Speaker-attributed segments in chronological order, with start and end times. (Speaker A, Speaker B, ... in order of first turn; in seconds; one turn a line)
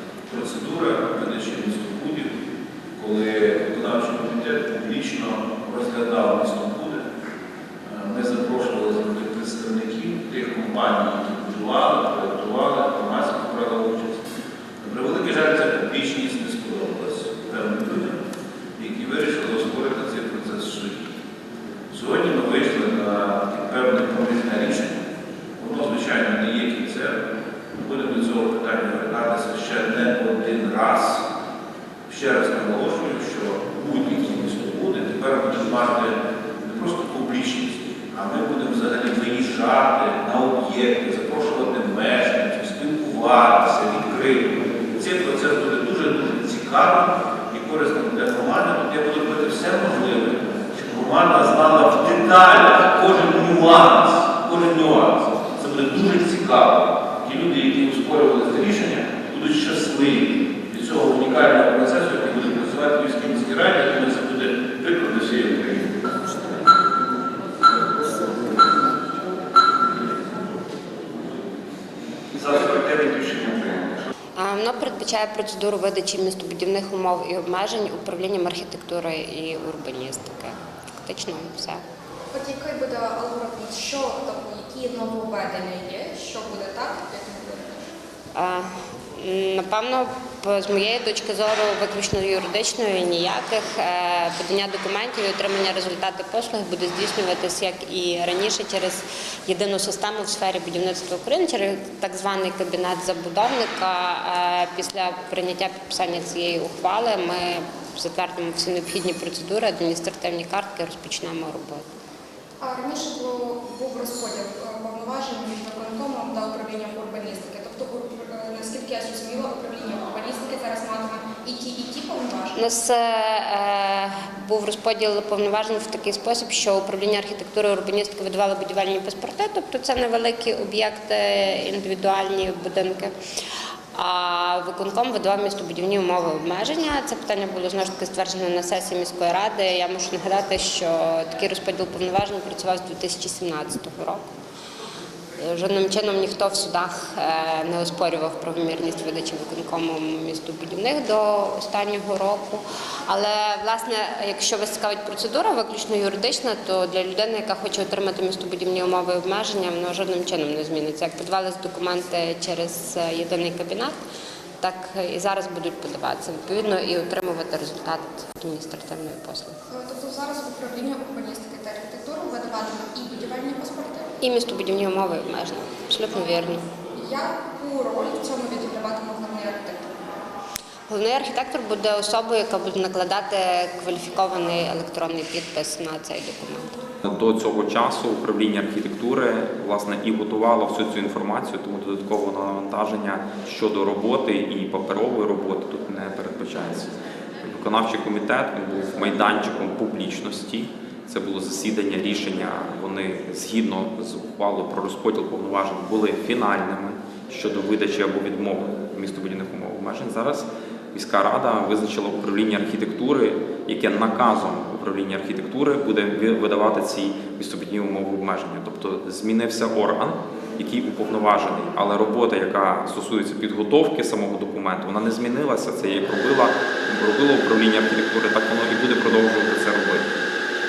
Speaker A: 0.3-2.3
Speaker A: 3.0-7.0
Speaker A: 7.8-14.2
Speaker A: 14.8-18.2
Speaker A: 18.8-21.1
Speaker A: 21.9-25.0
Speaker A: 25.6-27.2
Speaker A: 27.7-31.3
Speaker A: 32.1-66.4
Speaker A: 68.0-68.7
Speaker A: 72.3-74.1
Speaker B: 74.3-81.8
Speaker C: 82.3-87.9
Speaker B: 88.3-111.8
Speaker C: 112.6-122.6
Speaker B: 122.5-133.1
Speaker B: 133.9-144.2
Speaker B: 145.4-164.0
Speaker B: 164.6-169.6
Speaker C: 169.7-174.1
Speaker B: 174.2-176.6
Speaker C: 176.2-176.4
Speaker C: 176.9-179.9
Speaker B: 180.9-186.7
Speaker D: 187.0-196.9
Speaker D: 197.4-230.1